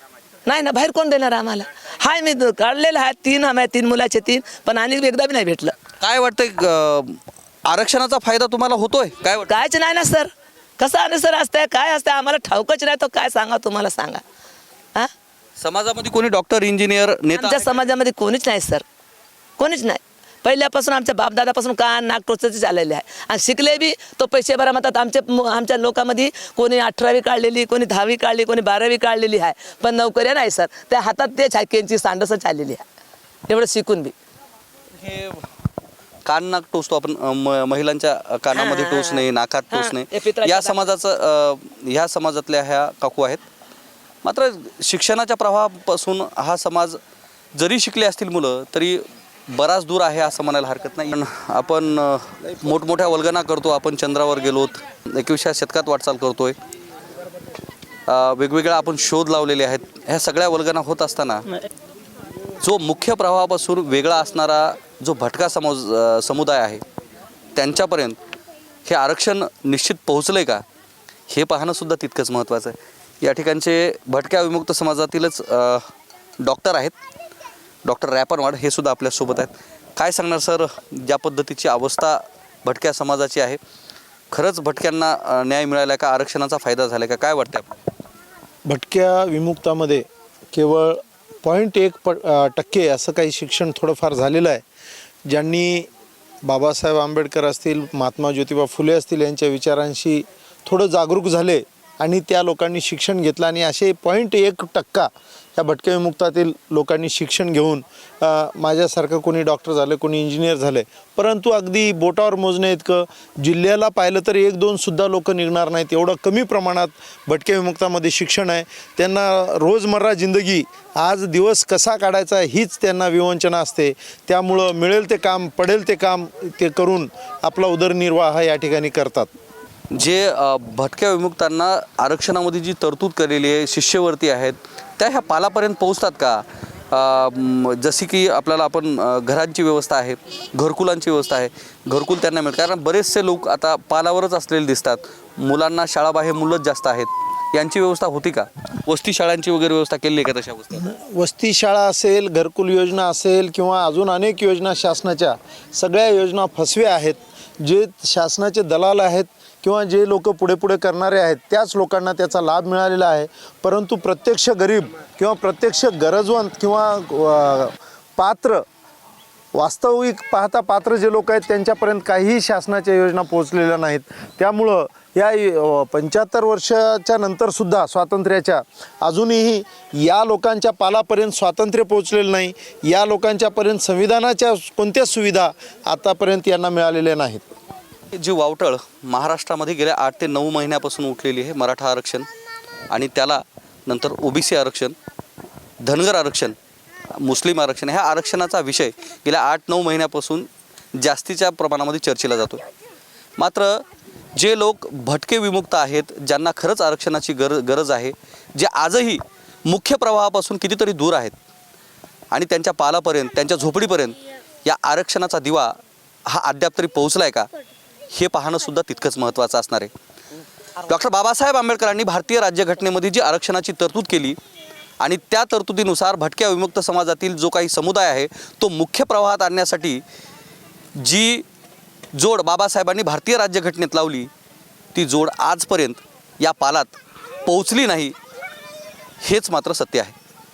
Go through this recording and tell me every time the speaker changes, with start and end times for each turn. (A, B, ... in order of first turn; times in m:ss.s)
0:00.4-0:05.7 A
0:06.0-0:09.5 B
0:09.5-0:10.3 A
0:10.8-0:14.2 A
0:15.6-0:17.8 B
0:17.3-0:18.8 A
0:19.6-0:32.8 A
0:33.5-0:34.1 A
0:35.0-0:35.4 B
0:36.2-0:43.4 B
0:38.5-0:40.8 A
0:44.2-0:47.0 B
0:47.5-0:56.6 B
0:58.1-1:01.4 B
1:02.6-1:06.8 B
1:07.5-1:08.2 B
1:08.8-1:10.6 B
1:11.3-1:15.9 B
1:16.4-1:16.9 B
1:17.8-1:23.6 B
1:24.3-1:27.7 B
1:28.6-1:34.6 C
1:35.3-1:35.9 C
1:36.4-2:09.3 C
2:09.9-2:30.8 B
2:30.7-2:48.6 C
2:49.5-3:07.4 C
3:08.1-3:12.3 B
3:12.9-3:14.9 B
3:15.8-3:16.6 B
3:17.2-3:22.6 B
3:23.4-3:23.8 B
3:24.3-3:31.3 B
3:32.3-3:35.8 B
3:36.3-3:37.5 B
3:38.1-3:39.9 B
3:40.9-3:44.4 B
3:45.0-3:50.0 B
3:51.0-3:51.4 B
3:52.1-3:54.3 B
3:54.9-3:56.9 B
3:57.4-3:58.1 B
3:59.2-4:00.1 B